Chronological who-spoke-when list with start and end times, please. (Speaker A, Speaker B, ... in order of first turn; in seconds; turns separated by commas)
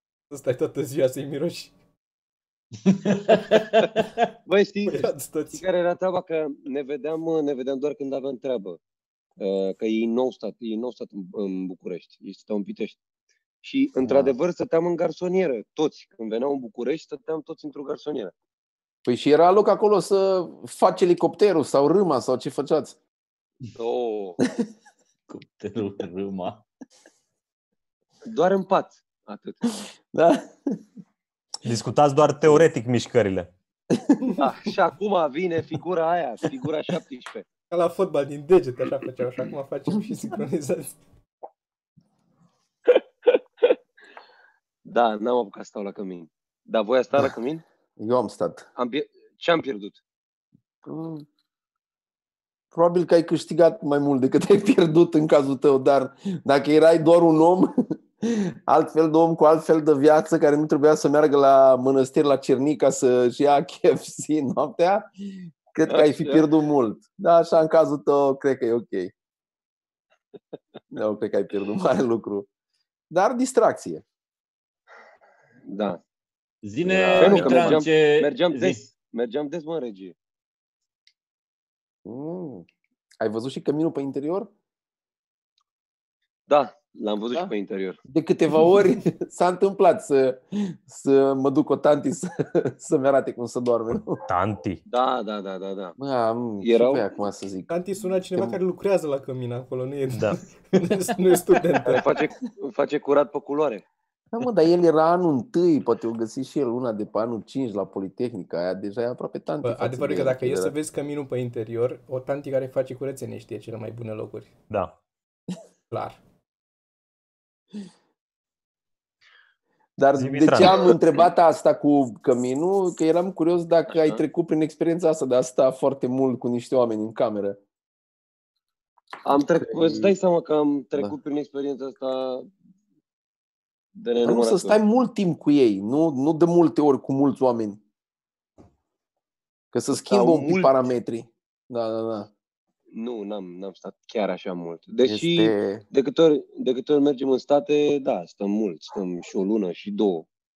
Speaker A: 0.3-1.7, Speaker B: 2.9-3.6, Speaker C: 4.5-8.8, Speaker A: 4.9-5.6, Speaker C: 9.4-13.0, Speaker C: 13.6-18.3, Speaker D: 14.1-14.3, Speaker D: 19.1-22.9, Speaker C: 23.8-24.4, Speaker B: 25.3-26.6, Speaker C: 28.2-29.6, Speaker D: 29.8-30.8, Speaker E: 31.6-33.5, Speaker D: 33.9-34.2, Speaker C: 34.4-37.4, Speaker A: 37.7-41.0, Speaker C: 42.9-43.8, Speaker C: 44.9-47.6, Speaker D: 48.0-48.6, Speaker C: 48.8-50.0, Speaker D: 50.8-51.2, Speaker D: 52.7-69.1, Speaker C: 65.9-66.4, Speaker D: 70.9-72.5, Speaker D: 73.1-74.0, Speaker C: 75.7-76.0, Speaker B: 76.6-78.8, Speaker D: 76.8-77.8, Speaker C: 77.2-80.1, Speaker D: 82.0-82.7, Speaker D: 83.2-84.5, Speaker C: 86.5-88.0, Speaker D: 88.1-94.2, Speaker E: 94.2-94.8, Speaker C: 94.9-96.0, Speaker D: 96.0-97.7, Speaker C: 96.6-97.1, Speaker A: 97.7-102.0, Speaker E: 100.1-100.4, Speaker C: 101.8-103.8, Speaker D: 104.3-110.7, Speaker A: 109.6-114.5, Speaker E: 114.7-114.9, Speaker A: 115.9-116.2, Speaker D: 120.0-127.6, Speaker E: 120.2-120.9, Speaker C: 123.9-124.2, Speaker C: 129.2-132.5, Speaker D: 129.4-130.1, Speaker C: 133.9-134.8, Speaker D: 134.2-137.8, Speaker D: 139.7-142.3, Speaker C: 139.9-140.7, Speaker C: 142.9-150.3, Speaker D: 145.0-145.8